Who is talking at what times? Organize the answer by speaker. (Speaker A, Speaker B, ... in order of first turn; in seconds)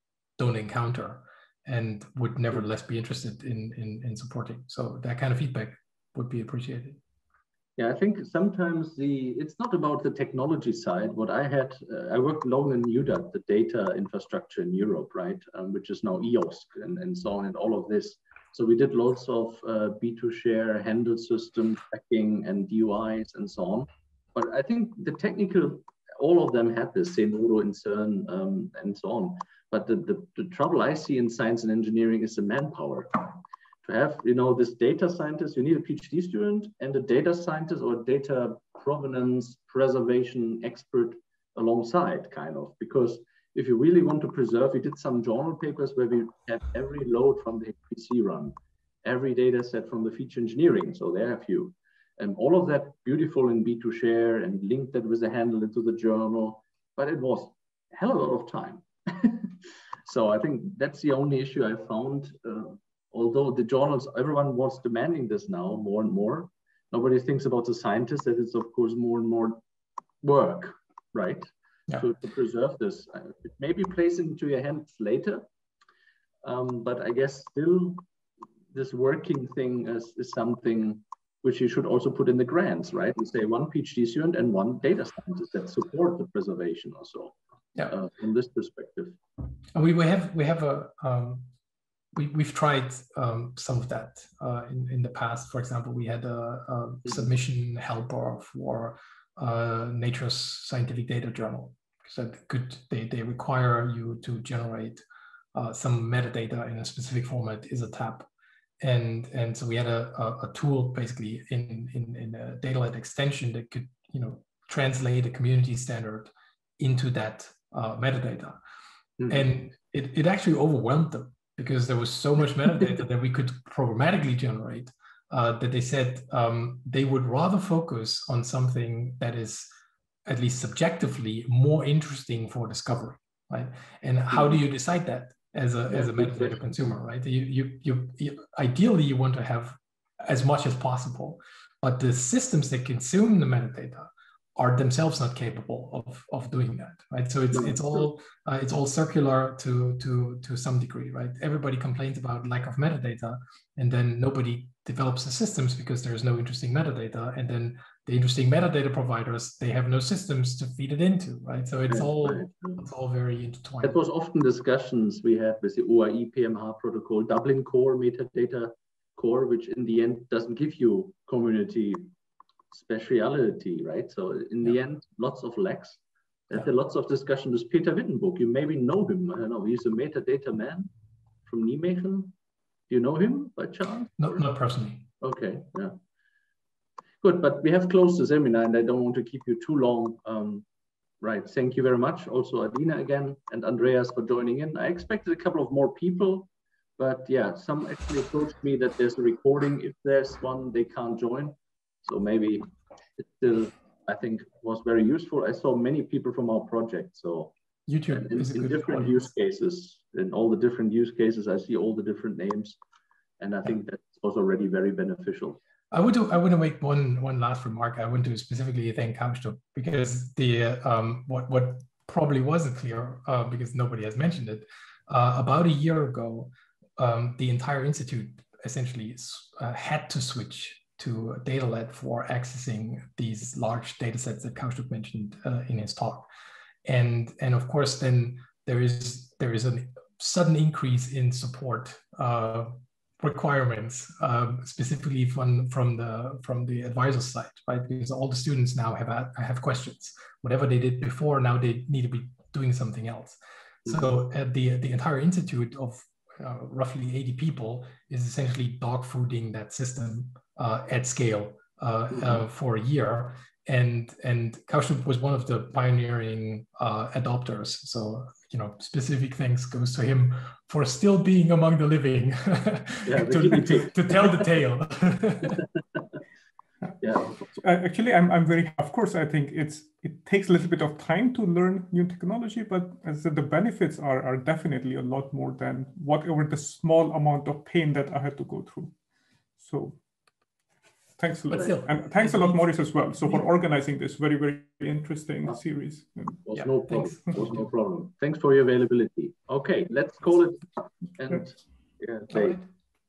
Speaker A: 0.4-7.0, 89.7-91.5, 92.2-105.0, 105.5-108.3, 108.8-118.6, 119.3-129.7, 130.3-164.0, 184.2-185.1, 207.9-209.2, 215.9-236.3, 236.8-275.6, 291.5-292.6, 296.6-297.5
Speaker B: 7.8-59.5, 60.1-69.6, 70.2-75.5, 76.4-78.0, 78.7-87.4, 87.9-89.2, 119.2-119.5, 135.9-136.6, 147.5-148.0, 161.9-162.8, 163.8-172.1, 172.7-180.9, 181.5-182.3, 182.9-184.5, 185.2-186.0, 187.2-190.7, 191.2-207.5, 208.1-212.8, 213.4-215.6, 273.1-274.3, 277.0-277.6, 296.4-302.6
Speaker C: 277.6-288.9, 289.6-290.0, 291.2-296.4